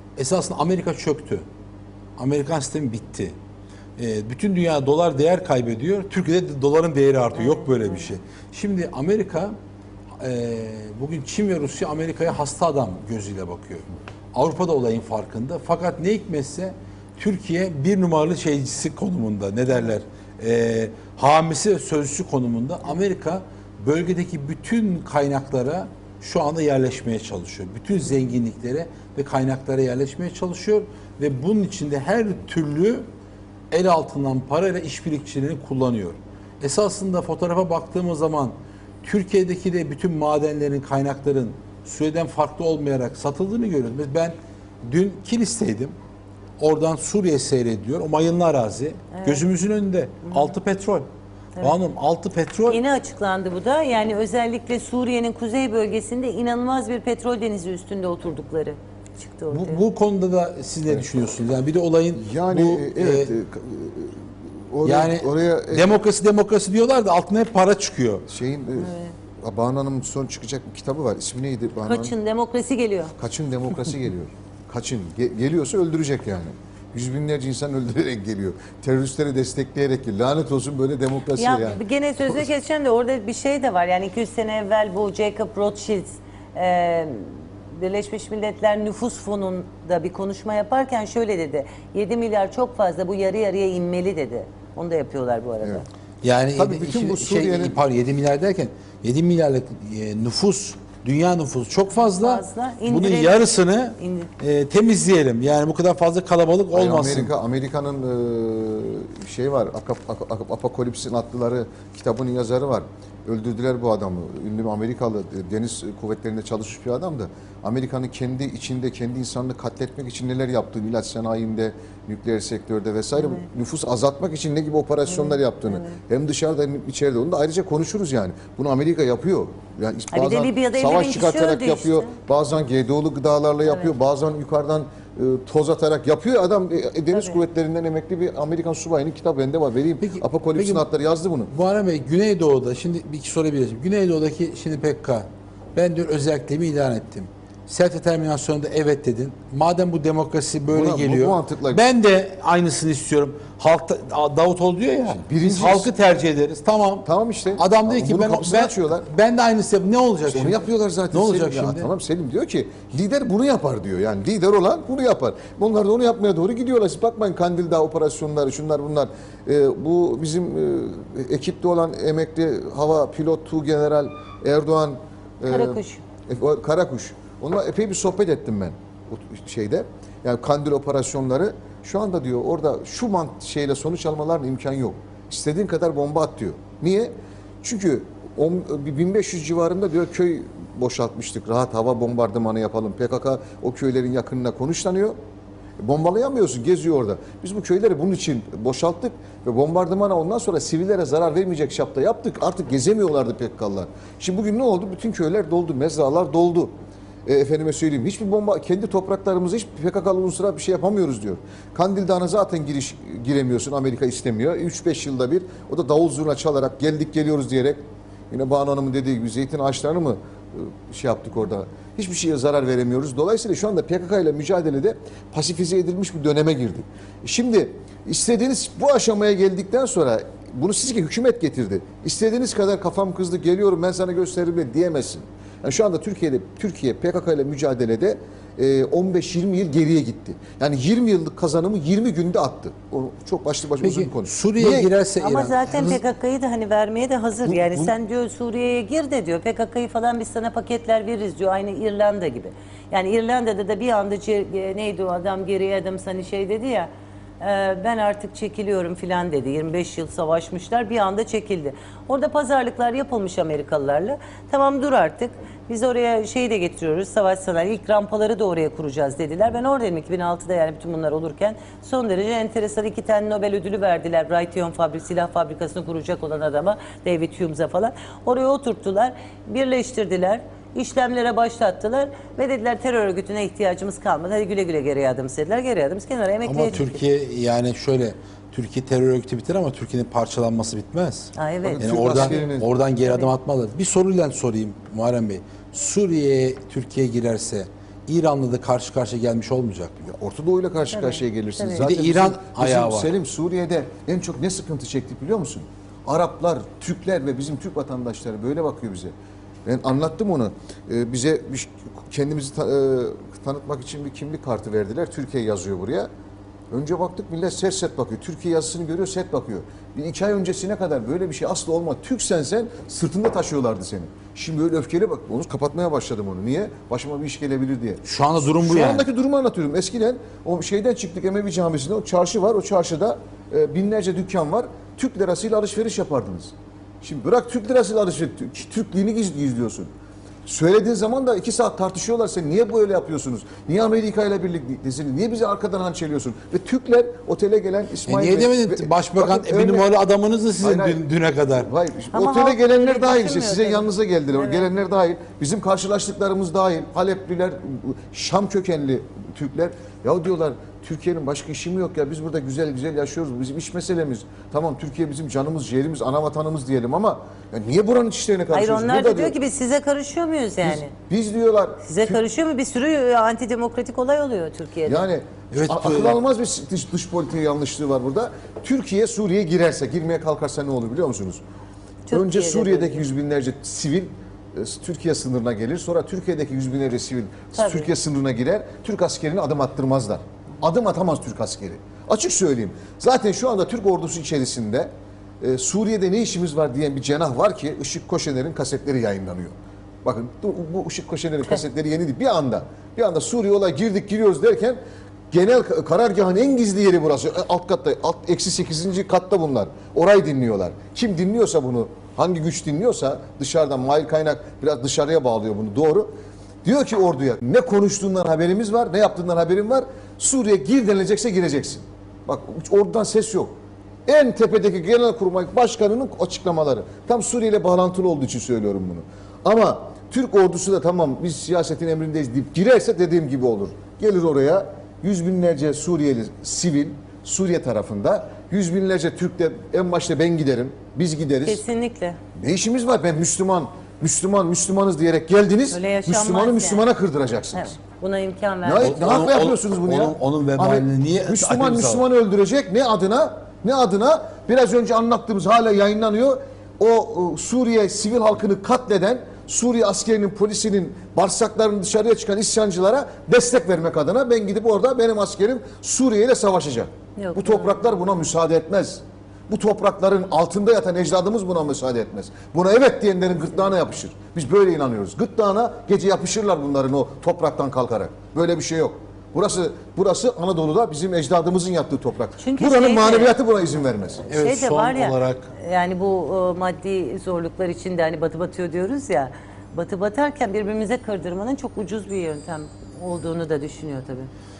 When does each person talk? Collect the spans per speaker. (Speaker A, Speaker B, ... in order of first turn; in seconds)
Speaker A: 0.2-1.5, 2.2-3.4, 4.0-9.6, 10.2-33.1, 33.7-46.0, 46.6-51.1, 51.6-52.8, 59.5-63.3, 64.8-68.3, 96.2-107.3, 140.0-140.9, 141.5-161.9, 243.8-246.0, 286.4-300.1, 301.8-303.1, 328.1-329.1, 348.1-351.7, 375.5-376.2, 448.8-452.0, 484.3-485.5
Speaker B: 7.3-8.1, 49.1-49.5, 50.2-50.5, 52.7-59.8, 68.8-69.1, 71.8-73.2, 81.3-95.8, 101.9-104.3, 123.2-123.5, 125.1-126.0, 130.1-132.1, 133.7-133.9, 137.1-137.4, 175.5-176.0, 245.2-287.0, 291.4-292.4, 293.0-293.3, 300.9-301.9, 352.1-354.7, 368.5-370.9, 371.8-375.0, 382.1-383.0, 387.5-387.9, 441.4-442.2, 445.7-446.9, 447.5-449.1, 467.2-467.8, 482.4-483.4, 484.3-494.3
Speaker C: 62.1-66.0, 68.3-72.1, 73.2-81.8, 96.6-97.8, 106.7-141.5, 150.7-151.8, 155.3-155.9, 157.0-159.1, 160.3-195.2, 195.8-206.7, 207.3-244.9, 247.5-247.9, 291.6-292.7, 300.1-309.1, 309.6-316.1, 316.7-328.0, 328.6-339.9, 340.4-349.9, 350.6-351.0, 351.5-369.4, 370.6-372.2, 374.9-381.4, 382.1-394.9, 395.4-404.8, 405.3-416.1, 416.6-423.5, 424.1-441.6, 442.4-447.8, 448.6-484.3